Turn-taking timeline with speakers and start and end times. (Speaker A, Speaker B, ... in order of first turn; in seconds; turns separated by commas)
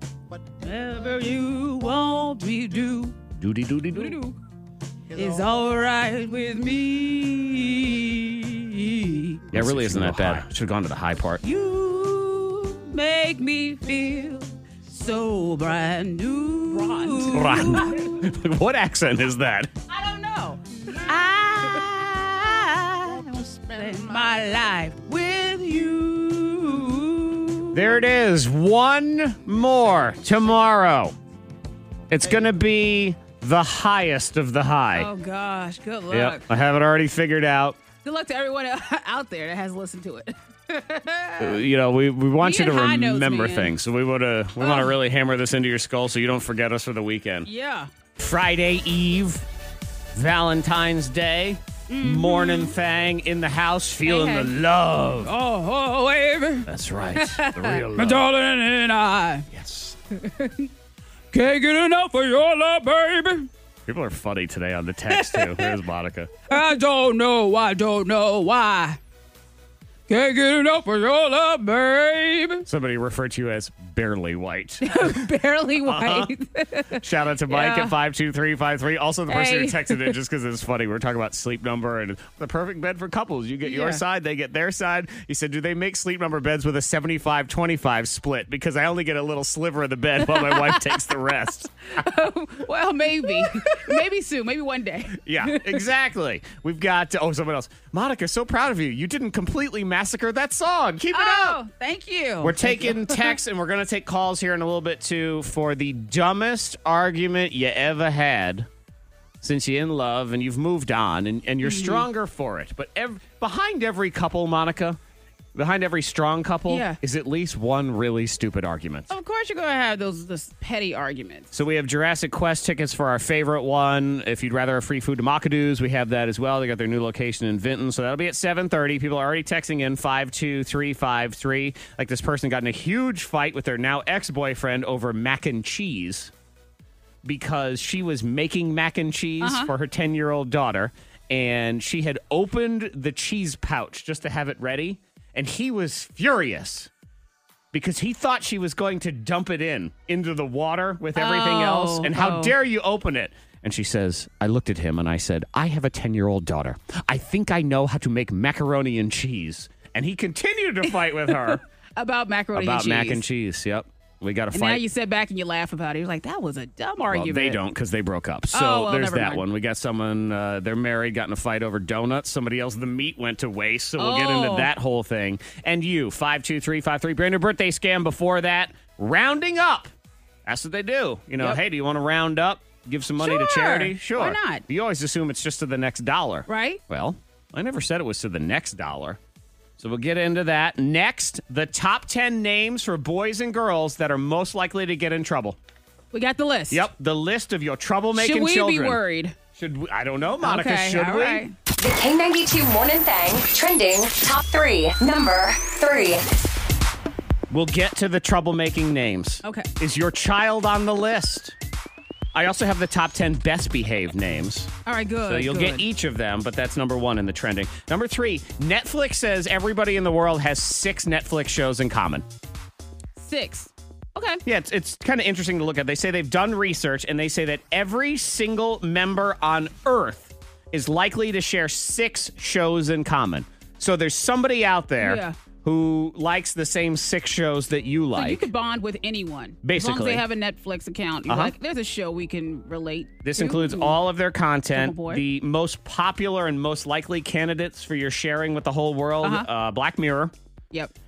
Speaker A: 0.6-3.2, Speaker B: 3.4-4.2, Speaker A: 3.9-4.4, Speaker A: 5.1-10.4, Speaker B: 9.5-11.4, Speaker A: 11.4-18.2, Speaker B: 17.3-19.7, Speaker A: 19.9-27.9, Speaker B: 27.7-31.1, Speaker B: 32.1-35.1, Speaker A: 34.9-36.5, Speaker B: 36.1-37.8, Speaker A: 38.0-41.6, Speaker B: 41.4-47.5, Speaker A: 42.4-43.7, Speaker A: 44.6-44.9, Speaker A: 47.4-47.9, Speaker B: 48.2-49.4, Speaker B: 50.1-55.3, Speaker A: 51.9-52.8, Speaker A: 54.0-54.5, Speaker A: 55.2-59.5, Speaker B: 56.6-58.3, Speaker B: 59.5-60.0, Speaker A: 60.1-60.7, Speaker A: 61.3-63.5, Speaker B: 63.9-66.3, Speaker A: 65.1-65.8, Speaker A: 66.5-69.0, Speaker A: 70.1-72.7, Speaker B: 72.7-75.2, Speaker A: 74.8-78.0, Speaker B: 75.8-76.3, Speaker B: 76.9-91.7, Speaker A: 79.3-80.2, Speaker A: 83.6-84.0, Speaker A: 90.2-91.0, Speaker A: 91.9-95.8, Speaker B: 95.2-101.6, Speaker A: 101.1-103.4, Speaker B: 102.4-108.7, Speaker B: 109.4-115.0, Speaker A: 111.6-112.1, Speaker B: 115.5-119.1, Speaker A: 116.7-117.0, Speaker A: 119.1-121.5, Speaker B: 121.5-136.3, Speaker B: 137.2-146.9, Speaker A: 139.4-139.7, Speaker B: 147.7-161.6, Speaker A: 151.1-152.5, Speaker A: 160.8-163.2, Speaker B: 162.5-164.8, Speaker A: 164.5-167.6, Speaker B: 167.1-179.9, Speaker A: 168.5-169.4, Speaker A: 174.0-174.7, Speaker B: 180.4-189.2, Speaker A: 183.2-184.6, Speaker A: 186.5-186.8, Speaker B: 189.8-195.6, Speaker A: 196.1-196.8, Speaker B: 196.7-199.0, Speaker A: 198.1-199.4, Speaker B: 199.5-201.5, Speaker A: 200.4-201.6, Speaker C: 201.8-206.3, Speaker B: 207.5-211.6, Speaker A: 209.4-209.7, Speaker B: 212.3-214.7, Speaker A: 214.8-215.9, Speaker B: 215.3-222.2, Speaker A: 223.2-224.4, Speaker B: 224.4-238.5, Speaker A: 235.0-235.4, Speaker A: 238.1-244.0, Speaker B: 239.6-240.2, Speaker B: 241.3-241.5, Speaker B: 243.2-250.3, Speaker A: 244.7-245.2, Speaker A: 249.2-249.5